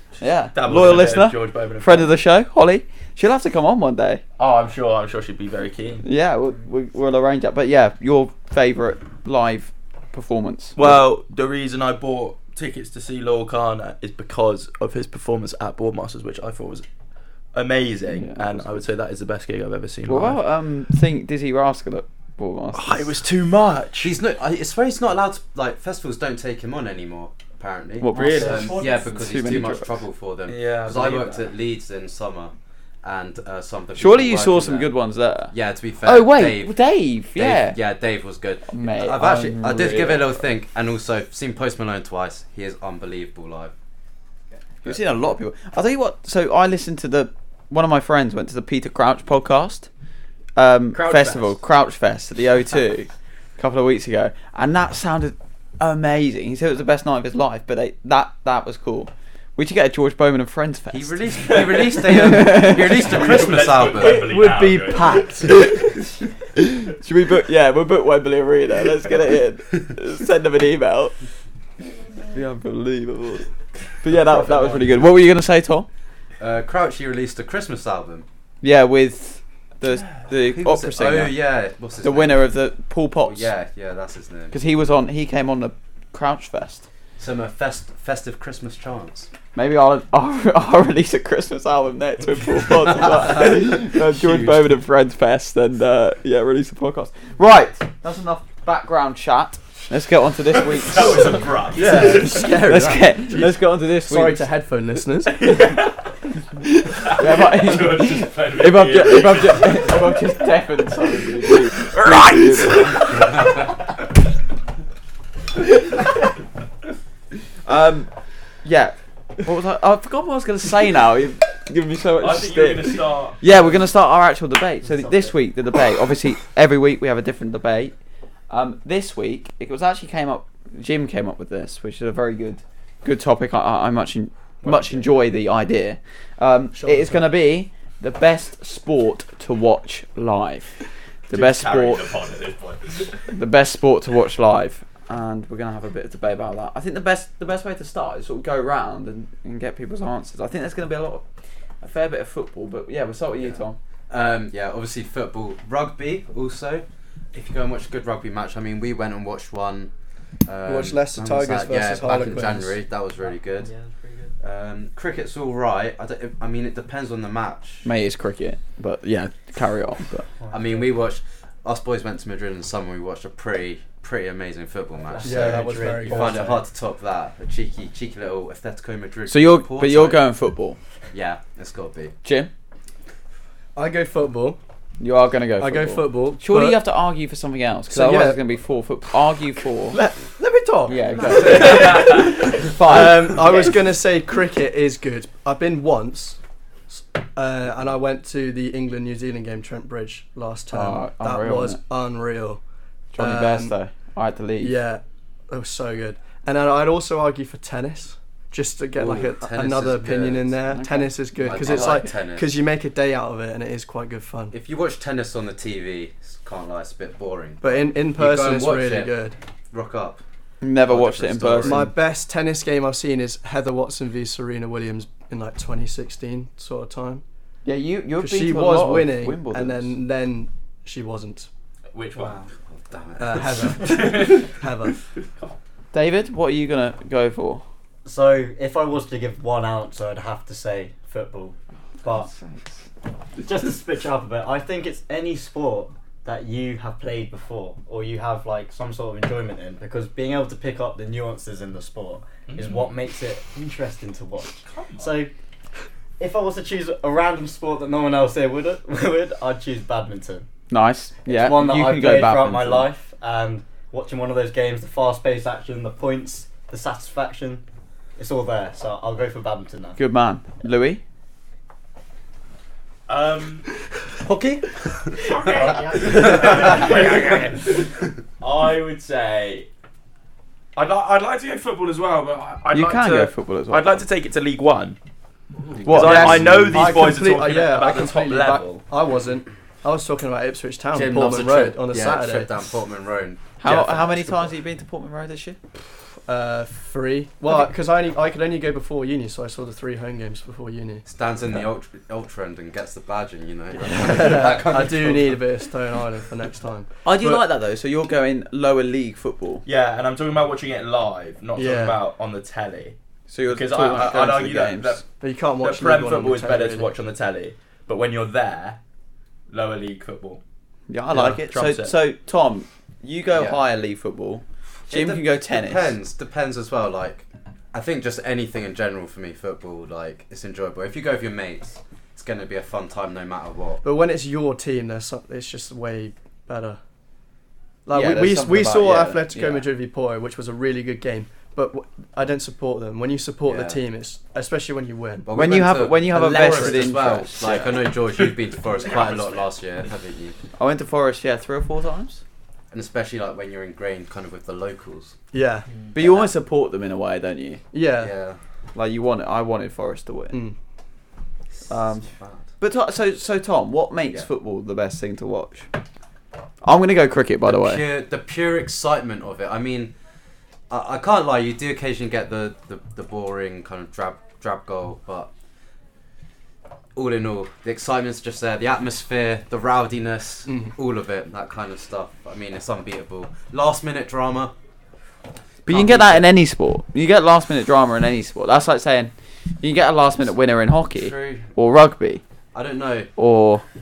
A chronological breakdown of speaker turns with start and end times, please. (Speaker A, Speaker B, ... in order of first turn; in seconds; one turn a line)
Speaker A: 0.2-4.2
Speaker B: 0.5-2.1
Speaker B: 4.4-6.0
Speaker A: 6.0-11.0
Speaker B: 10.8-16.8
Speaker B: 17.5-20.4
Speaker A: 18.1-18.8
Speaker A: 20.1-23.1
Speaker B: 22.7-24.1
Speaker C: 24.0-34.9
Speaker A: 28.0-30.0
Speaker D: 28.1-28.5
Speaker B: 28.2-29.0
Speaker B: 30.5-31.5
Speaker A: 34.0-37.8
Speaker C: 35.5-36.8
Speaker C: 37.3-43.7
Speaker A: 38.7-40.4
Speaker A: 44.8-49.9
Speaker A: 50.5-63.1
Speaker B: 50.9-51.6
Speaker C: 60.9-64.3
Speaker B: 61.5-62.0
Speaker B: 62.7-65.5
Speaker E: 63.9-65.7
Speaker A: 65.5-66.0
Speaker A: 66.5-71.1
Speaker A: 72.3-73.5
Speaker A: 74.0-75.9
Speaker C: 76.4-78.2
Speaker A: 78.6-81.4
Speaker C: 80.5-82.5
Speaker A: 82.0-83.5
Speaker C: 83.2-84.5
Speaker A: 84.5-86.9
Speaker C: 87.2-89.3
Speaker A: 89.5-101.5
Speaker C: 93.0-93.3
Speaker C: 94.2-94.5
Speaker B: 100.5-102.6
Speaker E: 101.7-105.4
Speaker A: 102.0-105.0
Speaker B: 105.4-106.1
Speaker A: 106.6-113.1
Speaker B: 107.0-110.3
Speaker B: 111.4-113.7
Speaker A: 117.6-118.1
Speaker A: 118.6-127.9
Speaker B: 122.2-123.5
Speaker D: 124.8-125.3
Speaker A: 128.5-140.8
Speaker D: 134.6-135.1
Speaker E: 136.7-137.3
Speaker A: 141.3-142.1
Speaker B: 141.3-143.2
Speaker A: 143.3-151.2
Speaker A: 151.8-153.8
Speaker C: 153.4-159.9
Speaker C: 160.4-163.7
Speaker E: 160.6-162.8
Speaker D: 163.5-164.3
Speaker C: 164.4-167.8
Speaker A: 167.8-170.2
Speaker D: 170.4-170.9
Speaker C: 170.5-180.2
Speaker D: 175.0-176.6
Speaker E: 175.2-176.6
Speaker A: 179.3-180.8
Speaker C: 181.1-182.1
Speaker A: 182.2-182.5
Speaker E: 183.7-184.6
Speaker A: 185.0-190.0
Speaker E: 185.6-186.8
Speaker E: 187.9-188.4
Speaker E: 189.9-196.4
Speaker A: 190.8-193.7
Speaker B: 191.4-192.5
Speaker E: 196.9-202.6
Speaker A: 200.7-201.8
Speaker E: 203.1-203.8
Speaker A: 203.1-204.8
Speaker E: 204.6-214.5
Speaker C: 208.9-210.5
Speaker A: 210.7-212.1
Speaker C: 211.4-212.5
Speaker C: 214.5-219.1
Speaker E: 217.6-219.3
Speaker C: 219.7-220.2
Speaker A: 220.6-221.9
Speaker C: 220.8-221.9
Speaker E: 221.6-227.2
Speaker A: 227.6-229.9
Speaker E: 228.2-231.5
Speaker B: 231.9-232.5
Speaker C: 232.7-233.8
Speaker E: 233.2-235.0
Speaker B: 233.6-234.6
Speaker B: 235.2-235.5
Speaker A: 235.9-237.6
Speaker D: 238.0-242.3
Speaker A: 242.0-242.8
Speaker D: 243.4-255.3
Speaker B: 252.5-252.9
Speaker B: 254.6-255.2
Speaker D: 256.2-260.5
Speaker A: 260.7-262.9
Speaker D: 261.2-267.6
Speaker D: 268.2-270.0
Speaker A: 270.0-271.0
Speaker B: 273.1-273.7
Speaker D: 274.2-274.7
Speaker B: 275.1-277.9
Speaker D: 275.4-277.4
Speaker B: 278.4-279.7
Speaker B: 280.8-285.0
Speaker A: 282.7-284.0
Speaker C: 285.8-286.5
Speaker A: 285.8-286.9
Speaker B: 285.9-288.8
Speaker E: 285.9-292.5
Speaker C: 290.9-293.6
Speaker A: 293.6-295.6
Speaker E: 293.7-294.1
Speaker E: 296.2-301.1
Speaker C: 301.1-305.4
Speaker E: 303.9-307.4
Speaker A: 307.0-309.6
Speaker B: 309.6-313.0
Speaker E: 311.5-312.0
Speaker A: 313.3-315.0
Speaker B: 313.5-315.0
Speaker E: 315.2-316.9
Speaker B: 315.6-318.8
Speaker B: 319.5-320.4
Speaker A: 320.9-325.9
Speaker B: 321.1-321.9
Speaker C: 323.3-323.6
Speaker C: 324.9-333.8
Speaker E: 333.8-336.8
Speaker E: 337.9-345.3
Speaker A: 337.9-339.7
Speaker C: 343.5-343.8
Speaker C: 345.2-350.4
Speaker A: 345.3-347.5
Speaker B: 347.4-348.4
Speaker B: 348.9-349.2
Speaker A: 350.6-352.2
Speaker C: 352.7-355.2
Speaker E: 355.3-355.6
Speaker A: 355.9-357.6
Speaker C: 355.9-356.3
Speaker E: 357.7-358.1
Speaker C: 358.0-358.4
Speaker A: 358.7-360.4
Speaker A: 361.7-362.1
Speaker C: 362.2-362.4
Speaker A: 362.6-365.7
Speaker A: 366.6-367.9
Speaker C: 367.4-369.9
Speaker C: 370.7-375.3
Speaker C: 376.9-384.5
Speaker C: 385.6-386.3
Speaker A: 385.6-392.2
Speaker C: 390.9-391.5
Speaker C: 392.5-393.1
Speaker A: 393.2-393.6